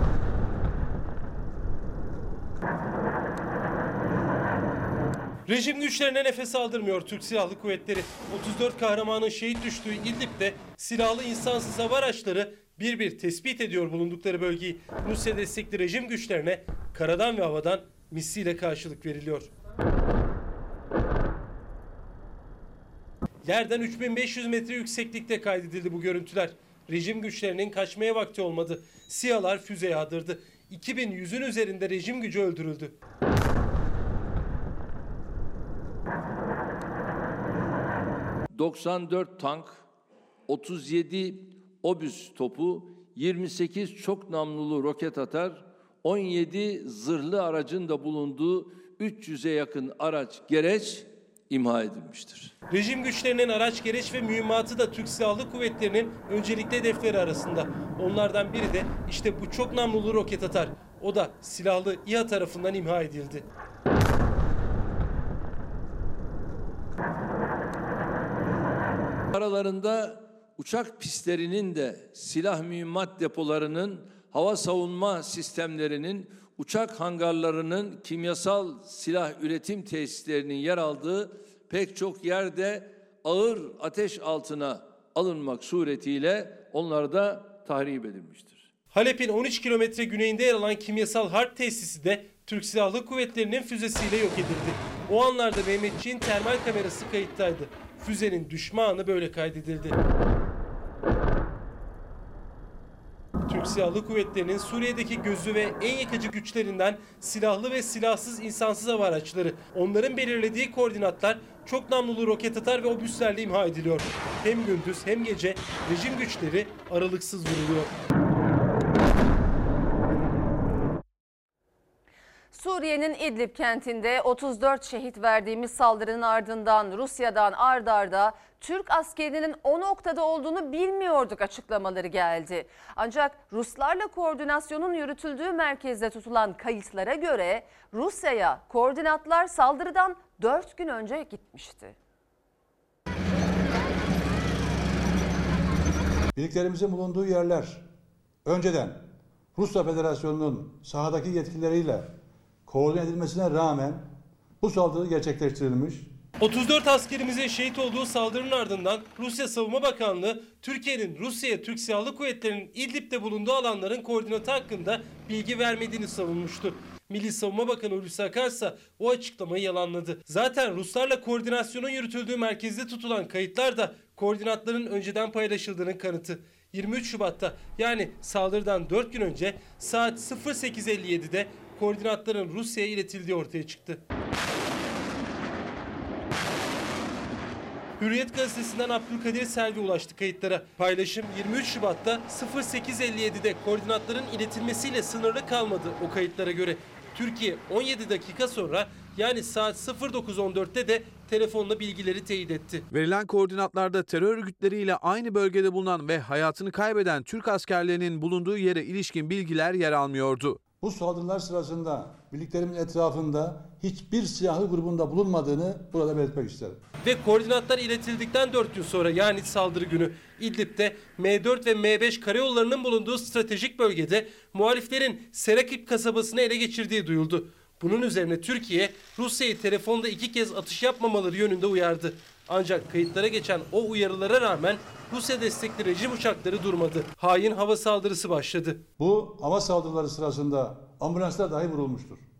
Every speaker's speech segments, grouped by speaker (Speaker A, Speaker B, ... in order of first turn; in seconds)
Speaker A: 5.5-19.5, 23.4-32.9, 52.7-63.4, 88.9-100.0, 103.5-117.9, 156.4-184.0, 188.0-202.8, 217.0-238.8
Speaker B: 38.5-39.8, 40.5-52.5, 69.3-88.7
Speaker C: 122.5-141.9
Speaker D: 146.3-147.9, 148.4-152.1, 152.7-156.1, 210.8-216.8, 239.0-242.2
Speaker E: 202.9-210.6